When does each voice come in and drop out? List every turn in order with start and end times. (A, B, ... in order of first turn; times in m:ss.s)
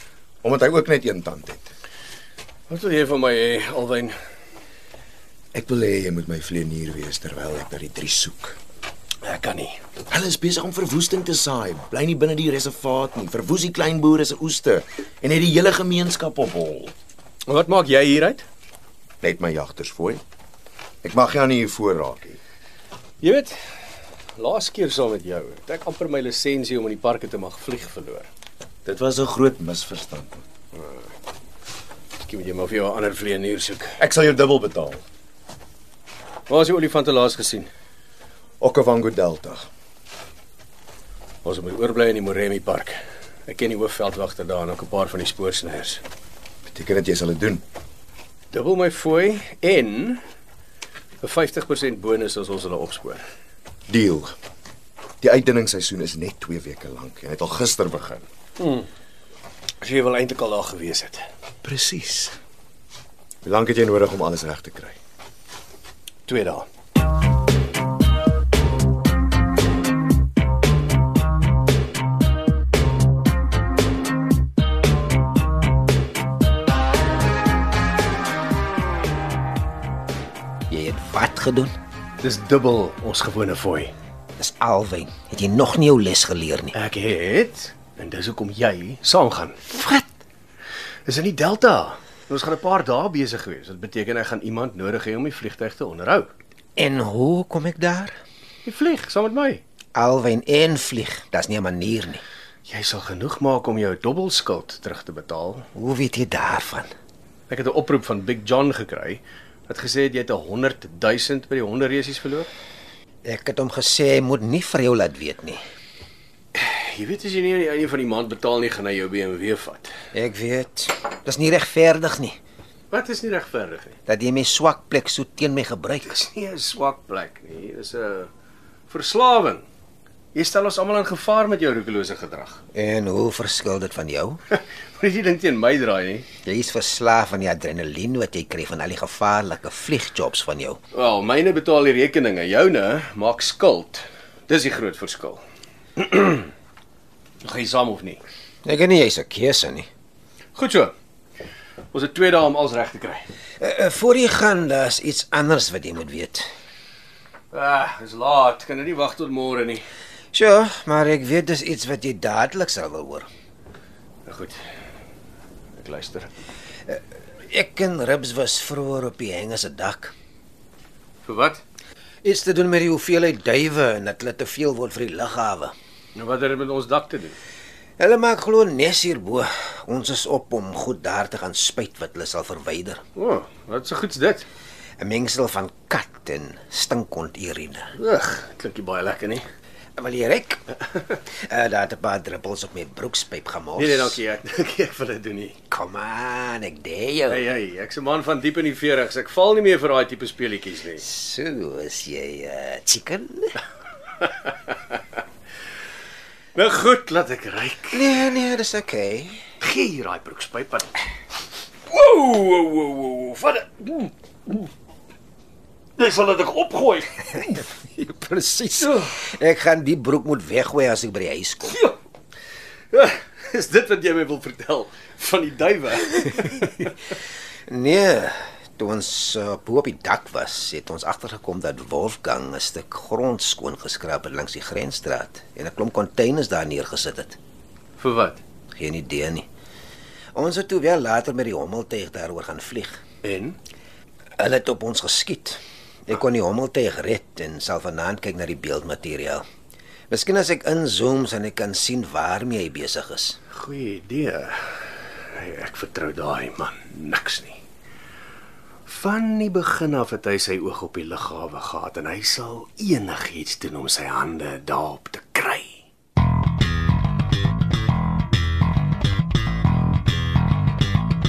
0:00.4-0:01.7 A
0:02.7-0:04.2 B
0:05.5-0:08.6 A
0:09.2-0:09.8 B
0:10.1-0:16.9 A
0:17.5-0:18.5 B
0:19.2-0:20.2 A
0:21.0-0:22.4 A
0:23.2-0:23.5 B
0:24.4-0:28.3 B
0:28.8-0:30.4 A
0:32.2-0:34.0 B
0:34.0-0:35.1 A
0:36.5-0:37.7 B
0:38.6-0:39.7 A
0:41.4-0:43.0 B
0:43.5-0:46.0 B
0:46.7-0:47.6 A
0:48.5-0:50.2 B
0:51.2-0:53.2 B
0:53.9-0:54.3 A
0:55.2-0:58.2 A
0:58.6-0:58.9 B
0:59.8-1:01.2 B
1:01.6-1:02.4 A
1:03.4-1:05.0 A
1:06.3-1:06.6 B
1:20.7-1:21.7 C
1:22.2-1:23.9 B
1:24.4-1:26.8 C
1:26.8-1:30.0 B
1:31.1-1:36.3 B
1:36.8-1:38.2 C
1:38.6-1:39.6 B
1:40.0-1:42.2 C
1:42.7-1:45.7 B
1:45.8-1:46.9 C
1:47.5-1:52.5 B
1:53.2-1:55.6 C
1:56.6-1:59.9 B
2:00.1-2:02.4 C
2:02.9-2:04.0 B
2:04.1-2:06.2 C
2:06.0-2:08.3 B
2:08.9-2:09.6 B
2:10.3-2:12.6 B
2:12.7-2:14.4 C
2:14.5-2:16.3 B
2:16.5-2:20.8 C
2:20.9-2:25.4 B
2:26.0-2:26.5 B
2:27.4-2:28.2 B
2:28.6-2:29.9 C
2:30.6-2:30.9 B
2:31.9-2:33.2 B
2:33.6-2:36.5 C
2:37.5-2:39.8 B
2:40.3-2:43.3 C
2:44.3-2:44.6 B
2:45.8-2:46.3 B
2:46.9-2:50.1 C
2:51.3-2:51.6 B
2:52.2-2:55.7 C
2:56.2-2:57.4 B
2:58.0-3:03.0 C
3:03.2-3:04.4 B
3:05.0-3:07.9 C
3:08.0-3:09.4 B
3:10.0-3:10.6 C
3:11.3-3:14.2 C
3:13.8-3:15.6 B
3:15.7-3:17.5 C
3:17.3-3:21.0 B
3:21.0-3:23.6 C
3:24.2-3:24.5 B
3:26.6-3:28.2 B
3:27.9-3:29.4 C
3:29.6-3:30.9 B
3:31.9-3:34.6 B
3:36.0-3:37.5 B
3:37.4-3:41.8 C
3:38.8-3:39.1 B
3:42.9-3:46.9 B
3:47.7-3:57.4 C
3:58.0-3:58.4 B
3:58.8-3:59.5 C
4:00.4-4:03.0 C
4:03.2-4:03.6 B
4:04.4-4:09.4 C
4:10.1-4:13.4 C
4:13.5-4:14.6 B
4:15.4-4:17.6 B
4:18.9-4:25.8 B